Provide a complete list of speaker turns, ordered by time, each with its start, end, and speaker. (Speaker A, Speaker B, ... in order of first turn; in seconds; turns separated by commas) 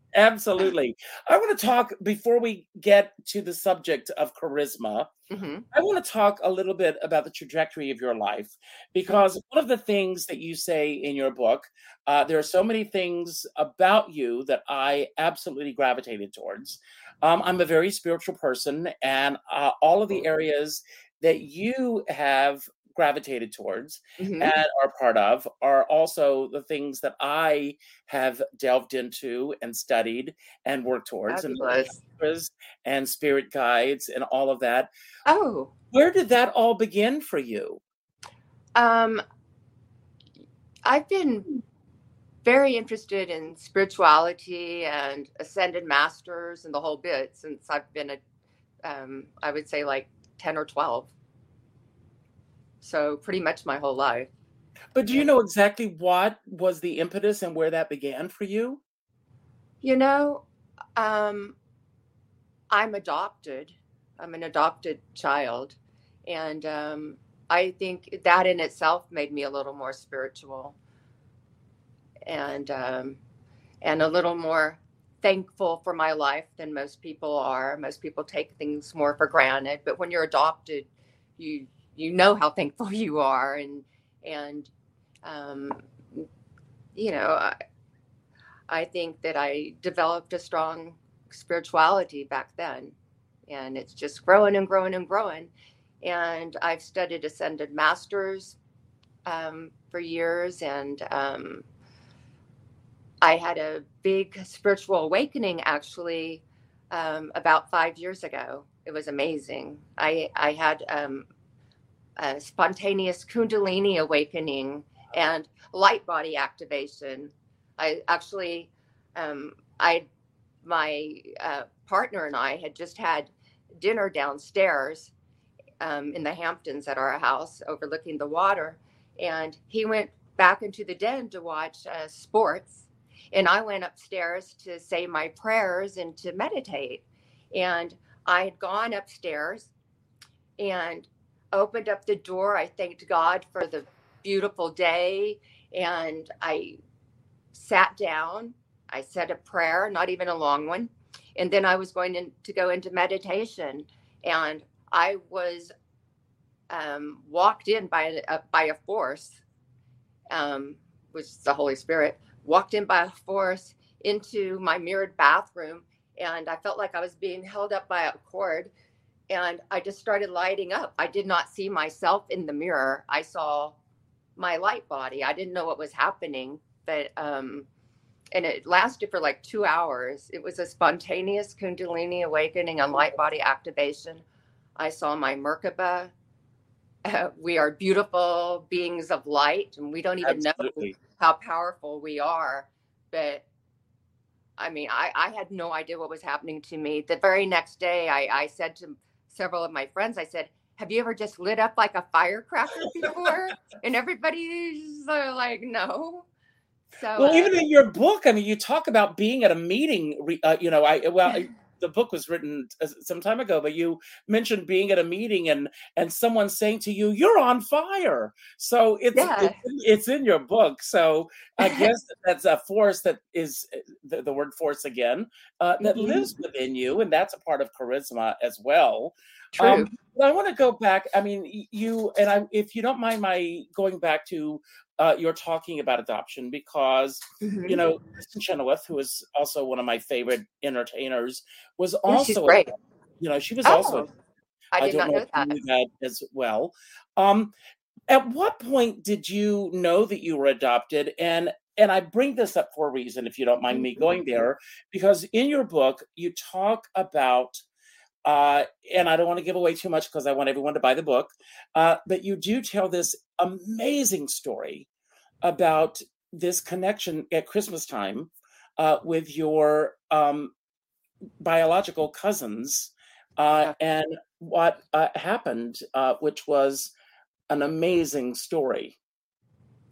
Speaker A: 0.1-5.1, Speaker B: 5.3-5.7, Speaker A: 5.7-34.9, Speaker B: 24.2-24.5, Speaker B: 31.3-32.0, Speaker B: 35.3-35.7, Speaker A: 35.9-37.8, Speaker B: 38.8-39.2, Speaker B: 40.9-41.6, Speaker B: 42.4-48.2, Speaker B: 48.8-51.1, Speaker B: 52.8-54.3, Speaker A: 54.9-58.8, Speaker B: 59.8-60.4, Speaker B: 61.0-61.6, Speaker B: 62.7-70.8, Speaker B: 72.3-73.2, Speaker B: 73.8-84.7, Speaker B: 85.2-86.3, Speaker B: 87.0-87.5, Speaker B: 88.7-93.0, Speaker B: 93.5-95.5, Speaker B: 96.0-98.6, Speaker B: 99.2-101.7, Speaker B: 103.2-111.3, Speaker B: 112.2-120.1, Speaker B: 120.6-125.1, Speaker B: 125.8-139.7, Speaker B: 140.6-146.8, Speaker B: 147.5-155.7, Speaker B: 156.7-159.4, Speaker B: 160.3-168.7, Speaker B: 169.3-173.8, Speaker B: 174.4-177.7, Speaker B: 178.3-184.2, Speaker B: 184.8-186.1, Speaker B: 187.1-193.4, Speaker A: 190.2-190.9, Speaker B: 194.6-206.3, Speaker B: 206.9-207.6, Speaker A: 207.2-242.7, Speaker B: 219.2-219.6, Speaker B: 221.6-221.9, Speaker B: 225.8-226.3, Speaker B: 229.6-229.9, Speaker B: 237.4-237.8, Speaker B: 242.1-242.7, Speaker A: 243.2-244.1, Speaker B: 243.6-244.1, Speaker B: 244.7-245.5, Speaker A: 244.8-247.5, Speaker A: 248.1-257.6, Speaker B: 253.7-254.0, Speaker A: 258.2-264.9, Speaker A: 265.4-270.5, Speaker A: 271.4-276.9, Speaker A: 277.5-279.0